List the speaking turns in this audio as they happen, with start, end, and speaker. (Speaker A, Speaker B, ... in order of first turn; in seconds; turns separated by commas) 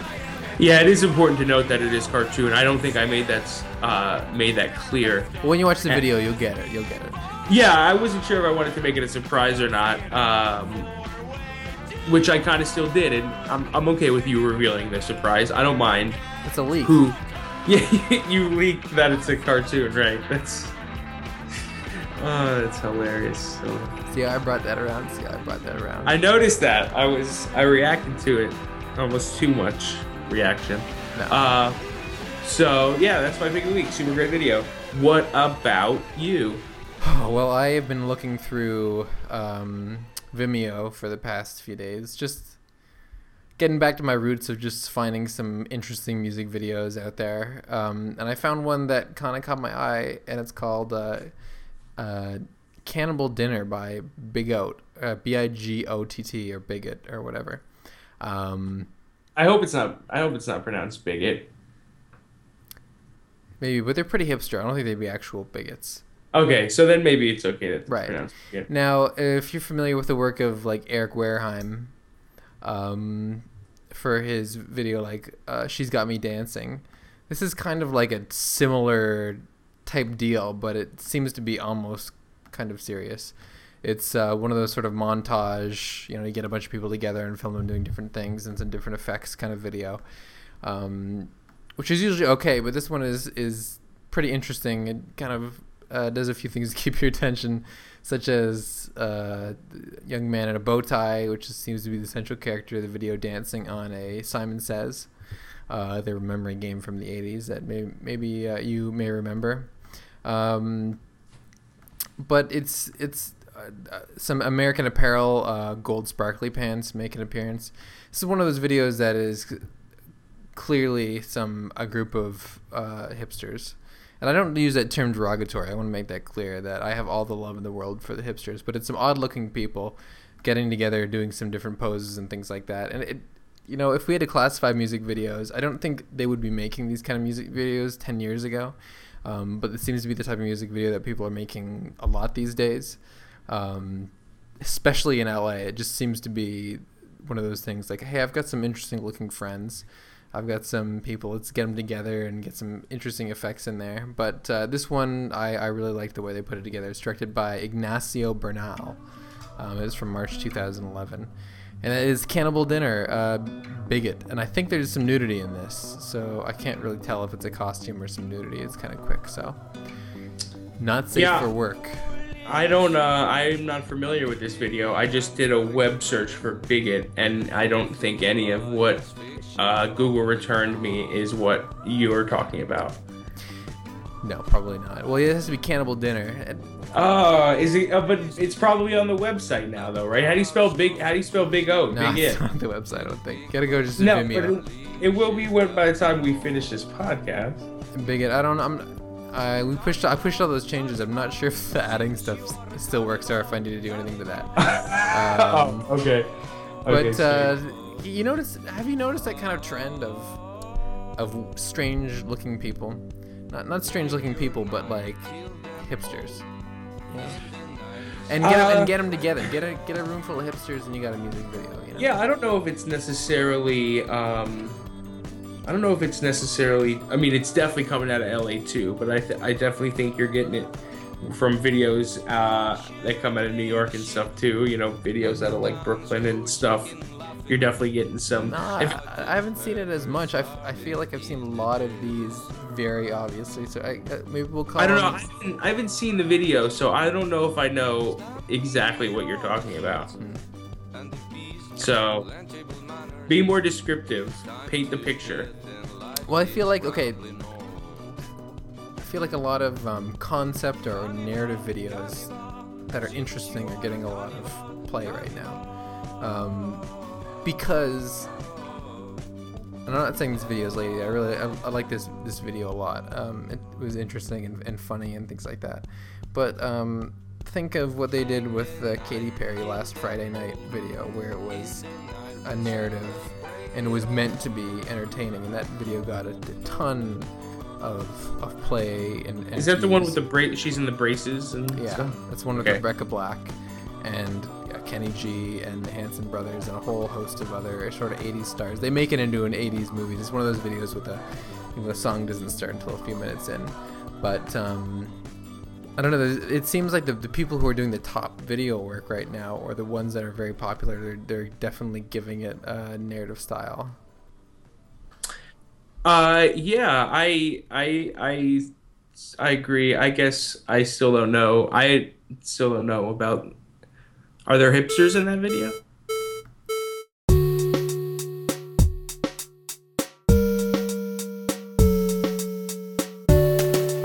Speaker A: 0.6-5.3, Speaker B: 5.4-7.2, Speaker A: 7.5-10.9, Speaker A: 12.1-16.2, Speaker B: 16.4-17.0, Speaker A: 16.8-20.7, Speaker A: 22.2-23.9, Speaker B: 24.1-26.1, Speaker A: 26.1-31.8, Speaker B: 31.1-31.5, Speaker A: 32.4-36.6, Speaker B: 37.0-42.6, Speaker B: 43.6-51.3, Speaker B: 52.0-57.6, Speaker B: 58.2-58.9, Speaker A: 59.4-61.5, Speaker B: 63.6-66.0, Speaker A: 66.3-68.7, Speaker B: 67.9-71.9, Speaker B: 72.6-90.0, Speaker B: 90.6-105.1, Speaker B: 105.7-109.7, Speaker B: 110.2-111.0, Speaker B: 112.2-119.7, Speaker B: 120.5-159.0, Speaker B: 159.6-161.3, Speaker B: 161.8-169.6, Speaker B: 170.8-172.0, Speaker A: 171.1-171.5, Speaker A: 172.4-183.0, Speaker B: 184.2-186.8, Speaker A: 186.9-192.4, Speaker B: 191.9-194.6, Speaker A: 194.0-197.6, Speaker B: 197.9-205.9, Speaker A: 204.6-206.3, Speaker A: 206.8-207.5, Speaker B: 206.9-210.4, Speaker B: 211.2-216.4, Speaker B: 217.1-217.4, Speaker B: 218.3-222.2, Speaker A: 218.4-218.9, Speaker A: 222.0-224.8, Speaker A: 225.6-239.0, Speaker B: 238.4-245.2, Speaker A: 244.8-250.1, Speaker B: 250.1-250.4, Speaker A: 251.7-252.3, Speaker A: 253.3-255.5, Speaker B: 256.1-257.4, Speaker B: 259.0-262.3, Speaker B: 262.9-265.6, Speaker B: 266.2-266.9, Speaker B: 267.4-268.3, Speaker B: 269.9-281.9, Speaker B: 282.4-290.2, Speaker A: 289.6-292.8, Speaker B: 291.7-301.2, Speaker B: 301.7-305.1, Speaker B: 306.0-314.0, Speaker A: 316.0-323.5, Speaker A: 324.4-325.8